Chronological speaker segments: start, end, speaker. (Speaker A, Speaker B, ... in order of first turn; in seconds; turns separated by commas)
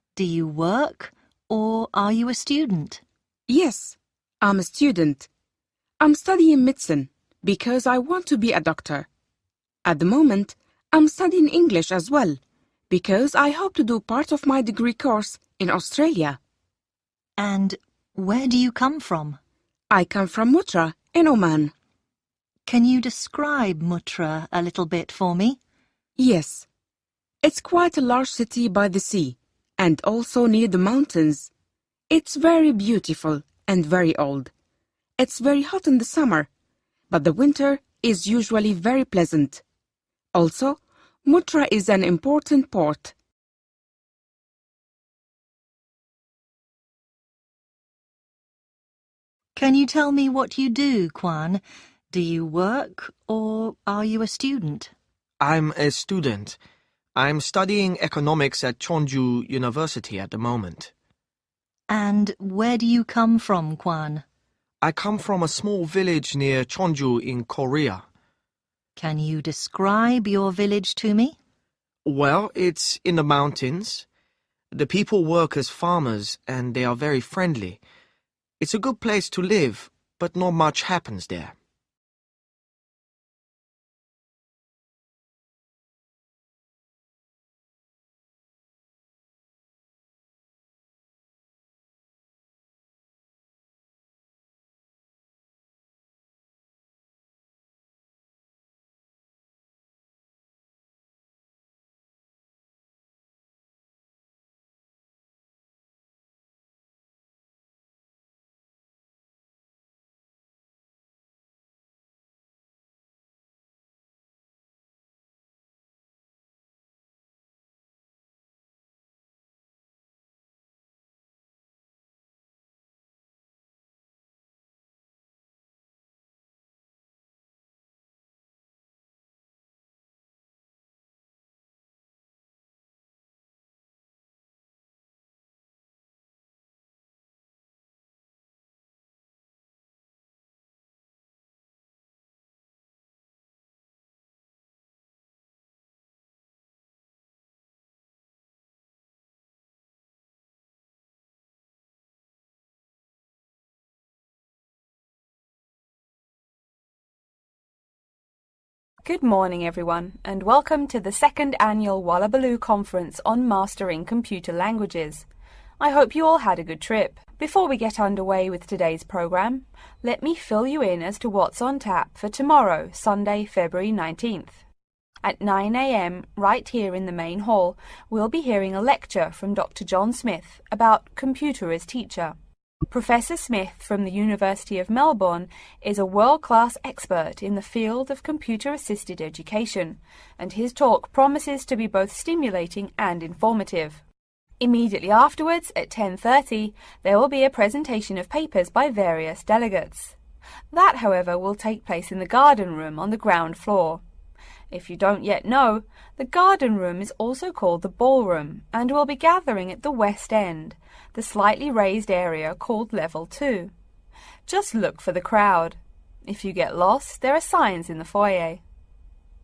Speaker A: 0.1-3.0, Speaker B: 3.5-5.3, Speaker B: 6.0-9.1, Speaker B: 9.8-12.4, Speaker B: 12.9-16.4, Speaker A: 17.4-19.4, Speaker B: 19.9-21.7, Speaker A: 22.7-25.6, Speaker B: 26.2-26.7, Speaker B: 27.4-31.5, Speaker B: 32.1-34.5, Speaker B: 35.2-36.5, Speaker B: 37.1-39.6, Speaker B: 40.3-43.1, Speaker A: 49.5-54.9, Speaker C: 55.4-56.6, Speaker C: 57.1-60.9, Speaker A: 61.9-64.2, Speaker C: 64.8-68.0, Speaker A: 69.0-71.4, Speaker C: 72.0-74.1, Speaker C: 74.7-77.8, Speaker C: 78.6-81.5, Speaker D: 159.0-165.3, Speaker D: 165.8-174.6, Speaker D: 175.2-182.3, Speaker D: 182.9-194.0, Speaker D: 194.6-200.2, Speaker D: 200.7-204.0, Speaker D: 204.7-213.7, Speaker D: 214.5-218.6